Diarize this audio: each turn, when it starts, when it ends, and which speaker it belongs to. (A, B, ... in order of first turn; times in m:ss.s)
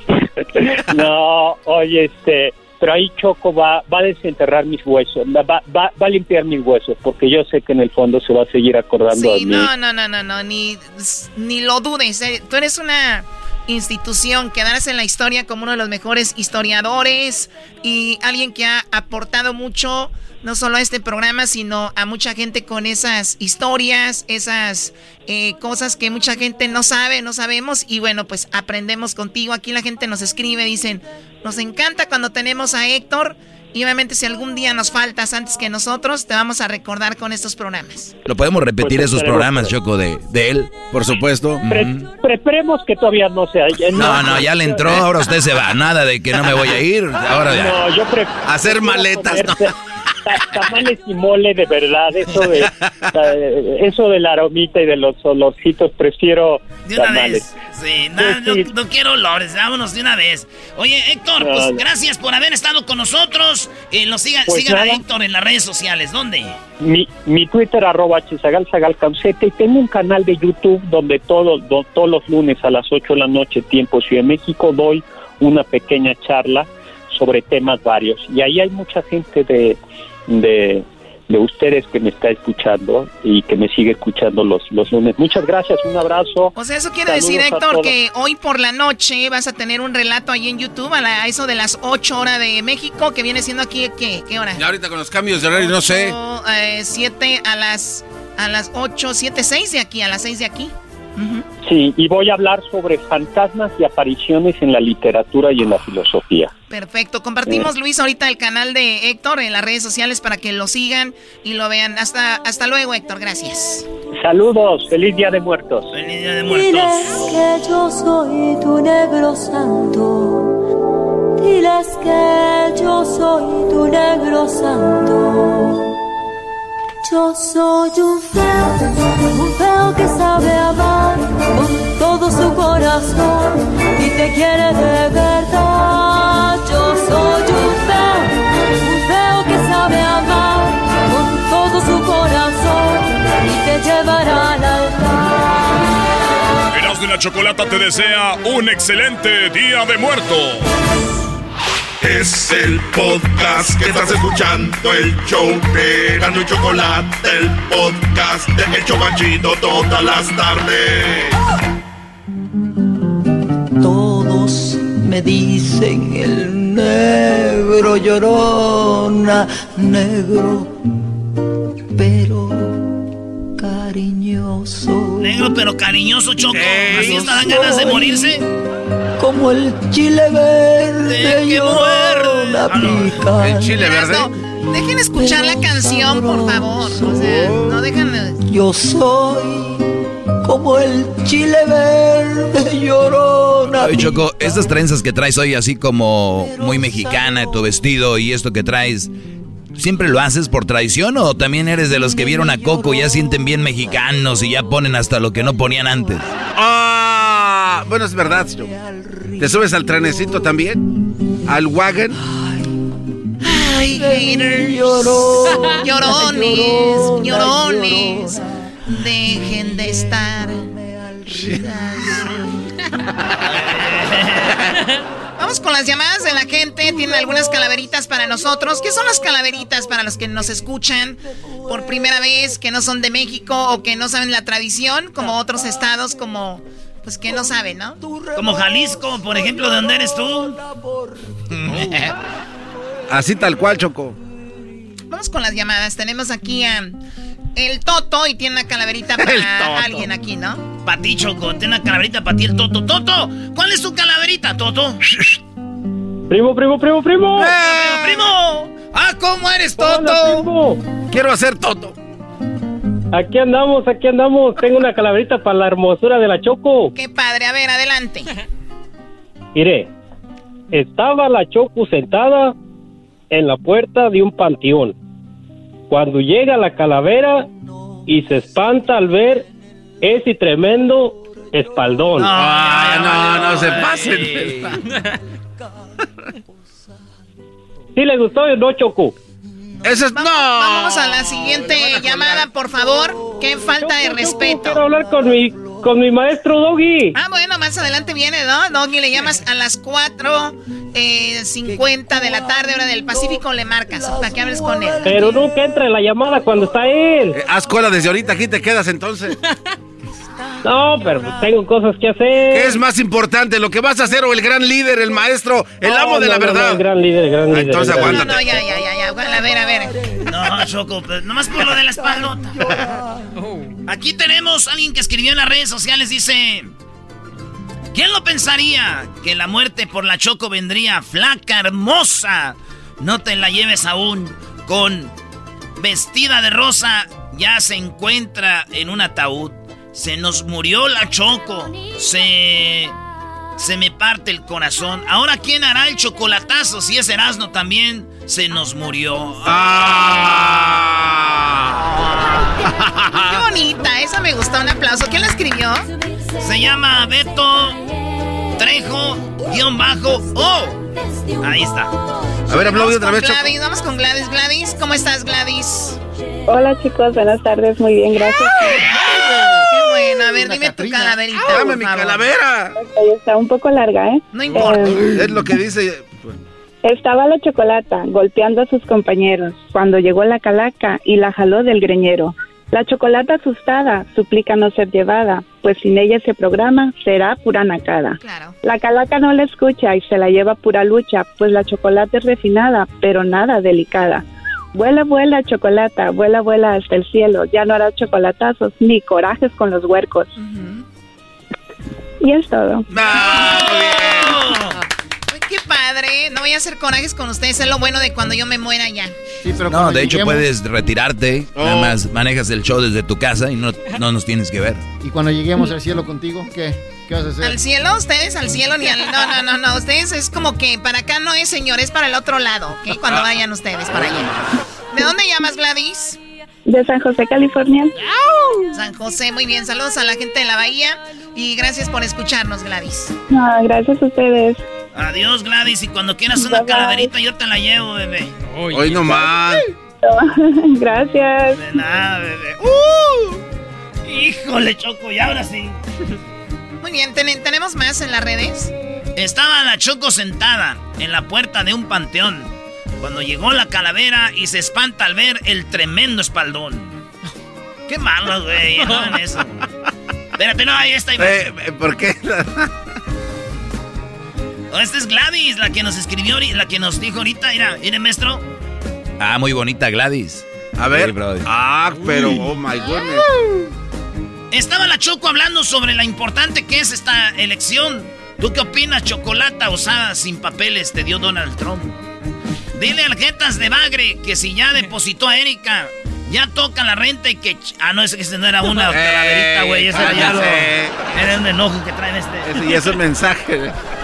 0:00.6-0:09.7 A
0:09.1-0:38.1 B
0:38.3-0:40.8 C
0:38.8-0:39.7 A
0:40.9-0:41.6 D
0:41.6-0:42.1 C
0:41.6-0:45.1 A
0:44.0-0:47.8 C
0:47.5-0:49.7 A
0:48.4-0:49.7 D
0:50.3-0:57.5 A
0:56.9-1:06.6 E
0:58.2-0:58.7 A
1:01.4-1:01.8 A
1:04.5-1:05.0 A
1:06.8-1:27.9 A
1:26.6-1:34.6 B
1:34.6-1:36.2 D
1:35.6-1:41.4 B
1:41.6-1:46.5 A
1:46.7-1:53.9 B
1:54.2-1:55.9 A
1:55.9-1:57.3 E
1:56.5-2:00.5 F
2:01.4-2:05.9 F
2:07.0-2:26.0 F
2:26.7-2:30.7 G
2:32.0-2:41.3 H
2:43.8-2:50.8 I
2:52.0-2:52.8 I
2:53.6-2:55.5 I
2:55.2-2:58.4 E
2:56.5-2:57.4 D
2:56.6-2:58.4 I
2:59.2-3:04.0 I
3:01.0-3:03.2 E
3:03.4-3:04.3 D
3:03.8-3:08.4 B
3:05.1-3:07.6 I
3:07.2-3:07.7 D
3:08.5-3:09.8 I
3:10.4-3:14.8 I
3:13.8-3:19.1 C
3:16.4-3:17.6 I
3:19.8-3:26.3 C
3:26.6-3:28.7 D
3:28.9-3:29.4 I
3:29.4-3:30.8 D
3:31.4-3:32.2 D
3:33.4-3:38.5 I
3:33.4-3:34.7 B
3:35.8-3:38.4 B
3:38.9-3:40.6 B
3:40.7-3:42.4 I
3:43.5-3:44.5 E
3:45.4-3:58.0 B
3:58.4-4:00.6 E
4:01.5-4:02.1 E
4:03.1-4:04.2 D
4:05.1-4:07.0 B
4:07.6-4:10.6 B
4:09.2-4:10.1 D
4:10.8-4:15.1 E
4:16.3-4:17.6 J
4:17.4-4:18.3 D
4:17.6-4:20.5 E
4:19.8-4:20.8 J
4:21.1-4:22.0 D
4:23.1-4:26.9 J
4:27.0-4:28.3 B
4:29.6-4:29.9 J
4:30.7-4:32.6 J
4:33.3-4:35.0 J
4:35.9-4:37.5 J
4:38.1-4:39.5 J
4:40.0-4:42.3 J
4:42.2-4:44.5 E
4:42.4-4:44.7 D
4:48.0-4:49.2 J
4:49.8-4:52.2 D
4:50.1-4:54.8 B
4:53.8-4:57.2 J
4:57.2-5:05.4 B
5:04.2-5:05.3 I
5:05.0-5:07.4 J
5:07.3-5:09.4 D
5:10.6-5:12.8 J
5:12.5-5:16.8 D
5:15.8-5:18.3 J
5:17.5-5:18.5 D
5:18.0-5:19.9 B
5:20.3-5:22.6 E
5:23.9-5:26.7 E
5:27.9-5:35.1 E
5:35.8-5:43.0 E
5:43.6-5:50.6 E
5:49.4-5:51.8 D
5:51.9-5:52.5 E
5:52.9-5:53.2 D
5:53.2-5:55.9 B
5:56.4-5:57.8 E
5:58.6-6:00.8 E
6:01.4-6:01.9 E
6:02.5-6:03.5 D
6:02.5-6:06.0 B
6:06.5-6:08.8 K
6:08.8-6:11.2 L
6:09.7-6:12.2 B
6:11.4-6:12.7 D
6:12.8-6:15.3 K
6:14.3-6:15.0 B
6:15.0-6:16.4 D
6:16.8-6:40.3 K
6:28.2-6:28.6 B
6:40.4-6:40.8 B
6:42.2-6:42.9 K
6:42.9-6:44.5 D
6:43.2-6:43.6 B
6:43.3-6:44.8 E
6:45.3-6:49.2 B
6:49.4-6:50.5 L
6:49.7-6:54.8 C
6:51.6-6:52.0 D
6:55.0-6:57.6 L
6:57.4-7:04.4 B
7:03.9-7:04.2 D
7:04.9-7:06.2 B
7:06.7-7:08.0 K
7:08.7-7:13.2 B
7:13.3-7:14.6 K
7:15.0-7:19.2 E
7:16.3-7:17.1 K
7:18.7-7:19.6 D
7:20.0-7:21.6 K
7:21.6-7:23.3 E
7:24.0-7:25.8 E
7:26.8-7:28.7 B
7:29.2-7:37.0 E
7:37.9-7:39.4 E
7:40.4-7:41.4 E
7:41.2-7:42.7 D
7:44.7-7:48.4 E
7:49.2-7:51.5 C
7:50.8-7:53.3 D
7:54.5-8:01.9 E
8:02.7-8:12.8 E
8:08.8-8:11.0 D
8:12.4-8:13.8 D